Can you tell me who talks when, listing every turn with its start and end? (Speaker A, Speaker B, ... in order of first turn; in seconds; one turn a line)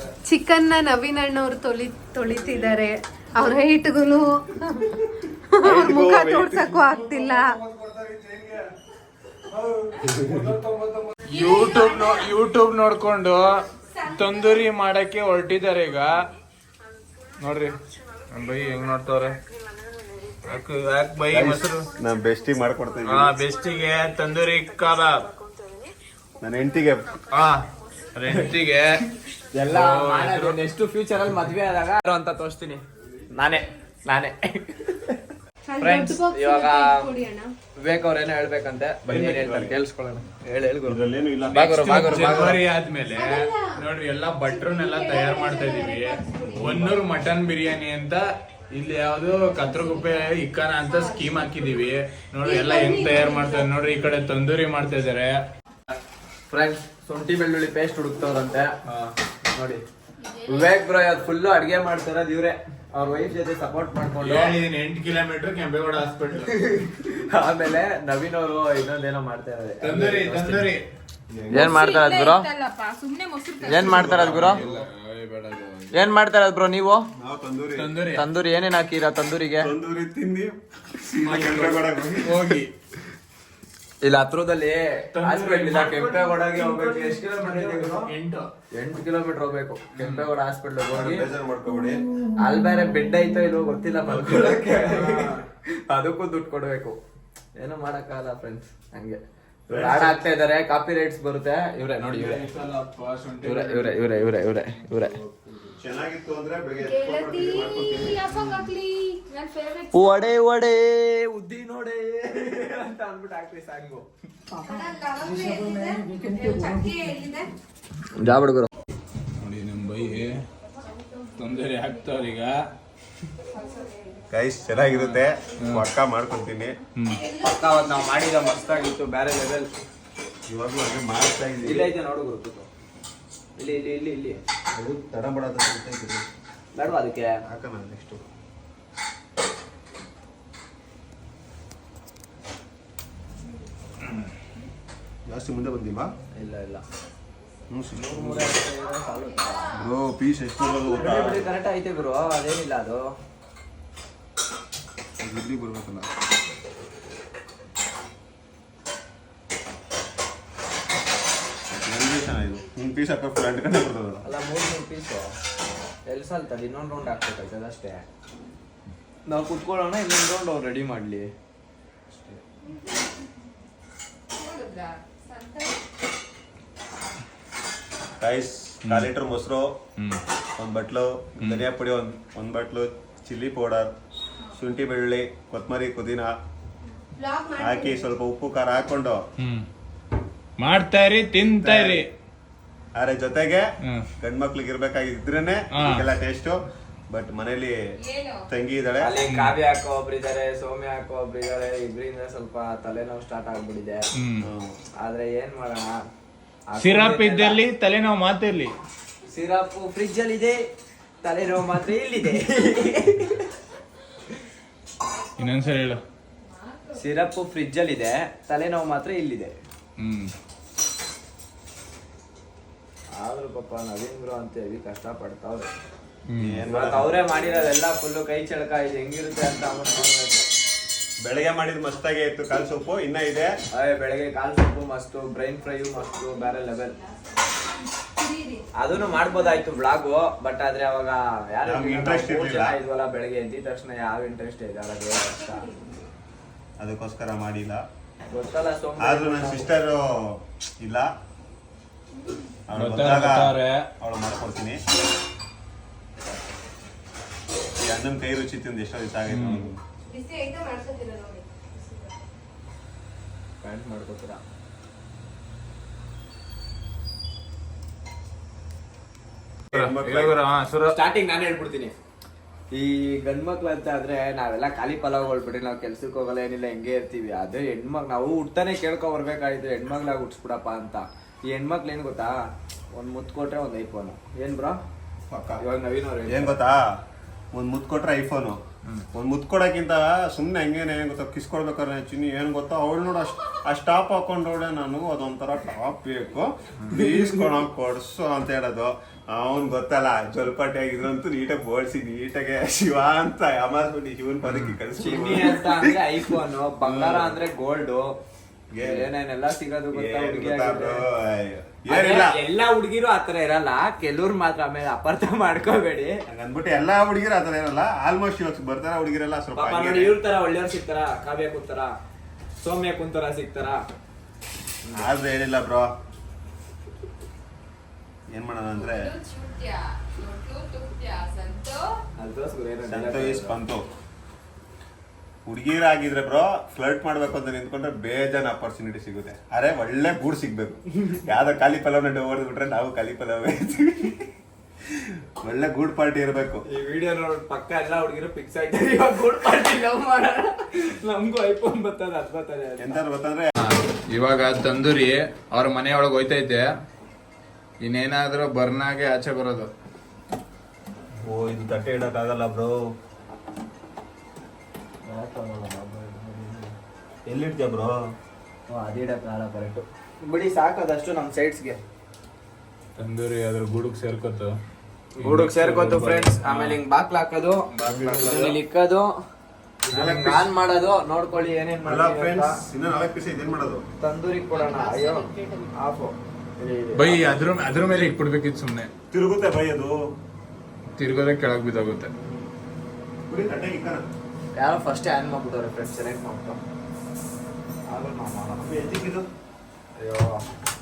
Speaker A: 0.2-4.9
Speaker A: 5.6-7.5
Speaker B: 5.6-6.8
Speaker C: 7.7-8.5
Speaker B: 10.0-10.4
Speaker C: 10.1-13.5
Speaker A: 11.3-12.3
Speaker A: 13.9-14.4
Speaker C: 14.1-16.1
Speaker C: 17.4-17.8
Speaker C: 18.3-19.4
Speaker C: 20.4-21.9
Speaker B: 21.3-23.4
Speaker C: 23.1-25.3
Speaker B: 26.4-27.1
Speaker C: 28.1-29.0
Speaker D: 29.5-32.8
Speaker C: 29.7-30.6
Speaker D: 33.3-35.1
Speaker A: 35.7-37.5
Speaker D: 35.8-37.0
Speaker D: 37.8-41.0
Speaker B: 39.1-39.8
Speaker B: 40.9-42.6
Speaker C: 41.5-55.4
Speaker D: 41.5-42.6
Speaker A: 43.1-43.8
Speaker A: 44.4-46.8
Speaker B: 46.5-46.9
Speaker A: 49.6-51.5
Speaker A: 52.4-53.7
Speaker D: 56.5-58.7
Speaker C: 58.9-59.1
Speaker D: 59.5-59.8
Speaker E: 60.2-60.9
Speaker D: 60.5-64.5
Speaker C: 64.2-66.5
Speaker D: 66.5-70.7
Speaker C: 69.8-70.8
Speaker B: 71.3-71.9
Speaker D: 71.5-72.5
Speaker E: 71.6-74.1
Speaker B: 73.6-74.7
Speaker D: 73.7-74.6
Speaker C: 73.9-76.1
Speaker D: 75.9-77.1
Speaker B: 77.2-77.9
Speaker C: 77.7-78.2
Speaker D: 78.1-79.7
Speaker B: 79.6-82.5
Speaker C: 81.2-82.7
Speaker D: 84.0-88.1
Speaker C: 85.1-88.5
Speaker D: 88.8-91.3
Speaker C: 89.9-90.3
Speaker B: 90.9-92.0
Speaker D: 92.4-97.0
Speaker C: 94.1-95.4
Speaker D: 97.6-102.4
Speaker B: 99.7-100.2
Speaker C: 102.0-104.3
Speaker D: 103.4-105.2
Speaker C: 105.2-105.7
Speaker B: 105.8-108.6
Speaker E: 106.8-110.3
Speaker D: 109.9-114.0
Speaker A: 114.6-117.5
Speaker D: 118.1-118.7
Speaker C: 119.4-120.4
Speaker E: 120.8-121.2
Speaker C: 121.3-122.5
Speaker B: 124.3-126.7
Speaker C: 124.8-125.8
Speaker C: 127.0-127.2
Speaker D: 127.4-129.7
Speaker B: 130.5-131.9
Speaker D: 131.6-132.7
Speaker D: 133.6-134.4
Speaker B: 134.7-136.3
Speaker D: 136.7-137.3
Speaker B: 137.4-138.3
Speaker B: 145.3-146.1
Speaker D: 146.3-146.8
Speaker B: 147.7-148.6
Speaker D: 147.9-149.8
Speaker E: 149.3-149.6
Speaker B: 149.7-151.5
Speaker D: 150.9-153.0
Speaker B: 155.2-156.1
Speaker B: 161.7-164.2
Speaker D: 164.2-165.3
Speaker D: 166.1-168.0
Speaker D: 169.3-171.3
Speaker E: 174.3-175.8
Speaker B: 178.2-179.8
Speaker C: 180.0-180.2
Speaker B: 180.6-183.9
Speaker B: 184.6-186.3
Speaker A: 187.2-188.1
Speaker B: 187.6-189.2
Speaker C: 189.4-189.6
Speaker C: 190.6-192.1
Speaker B: 191.6-192.1
Speaker B: 192.9-193.7
Speaker B: 194.2-197.7
Speaker C: 195.7-196.0
Speaker E: 198.0-198.4
Speaker B: 198.5-199.2
Speaker D: 199.0-204.0
Speaker C: 199.3-199.5
Speaker C: 204.2-204.4
Speaker B: 204.4-204.7
Speaker D: 205.0-205.9
Speaker D: 206.7-207.6
Speaker C: 206.8-208.7
Speaker D: 209.3-210.6
Speaker D: 211.2-213.5
Speaker C: 215.4-216.0
Speaker E: 216.4-217.0
Speaker D: 216.9-219.5
Speaker C: 220.0-220.3
Speaker D: 223.2-225.7
Speaker C: 226.3-226.6
Speaker B: 226.4-227.4
Speaker D: 226.7-230.4
Speaker B: 231.2-233.5
Speaker D: 233.7-237.0
Speaker A: 238.2-238.6
Speaker D: 238.8-245.7
Speaker B: 241.6-242.8
Speaker B: 246.8-247.8
Speaker D: 248.3-249.7
Speaker B: 249.0-251.1
Speaker B: 252.7-254.8
Speaker C: 252.8-253.9
Speaker B: 257.8-259.8
Speaker C: 259.3-259.7
Speaker A: 259.5-262.1
Speaker D: 263.6-264.4
Speaker B: 269.7-270.4
Speaker C: 269.7-270.9
Speaker D: 270.9-271.9
Speaker D: 272.7-282.3
Speaker D: 282.9-284.8
Speaker B: 285.3-285.6
Speaker D: 285.6-286.6
Speaker B: 286.3-286.8
Speaker B: 287.5-288.6
Speaker B: 289.1-307.4
Speaker C: 296.8-297.2
Speaker C: 304.4-304.8
Speaker D: 305.0-308.1
Speaker B: 308.7-309.1
Speaker D: 308.8-311.0
Speaker B: 309.9-312.4
Speaker D: 311.9-316.2
Speaker B: 316.3-320.2
Speaker D: 319.6-321.9
Speaker D: 322.6-323.8
Speaker B: 325.0-325.9
Speaker B: 328.3-329.1
Speaker E: 328.7-331.9
Speaker D: 332.2-333.6
Speaker B: 332.8-333.9
Speaker B: 335.4-344.3
Speaker B: 344.9-346.6
Speaker D: 346.7-353.0
Speaker B: 352.8-353.5
Speaker C: 353.6-356.6
Speaker C: 357.8-359.7
Speaker B: 361.2-362.7
Speaker D: 365.0-366.7
Speaker B: 367.2-367.9
Speaker D: 368.7-371.8
Speaker C: 373.0-374.5
Speaker D: 375.1-379.1
Speaker C: 375.2-376.8
Speaker C: 377.7-378.3
Speaker B: 378.1-378.6
Speaker B: 379.9-380.5
Speaker D: 379.9-382.6
Speaker B: 381.8-383.8
Speaker D: 384.0-387.4
Speaker A: 384.5-385.7
Speaker C: 386.9-388.9
Speaker B: 387.3-388.0
Speaker B: 389.1-389.9
Speaker C: 391.0-392.1
Speaker B: 393.3-394.0
Speaker D: 394.6-396.6
Speaker D: 397.9-398.6
Speaker B: 398.6-399.3
Speaker D: 400.0-400.4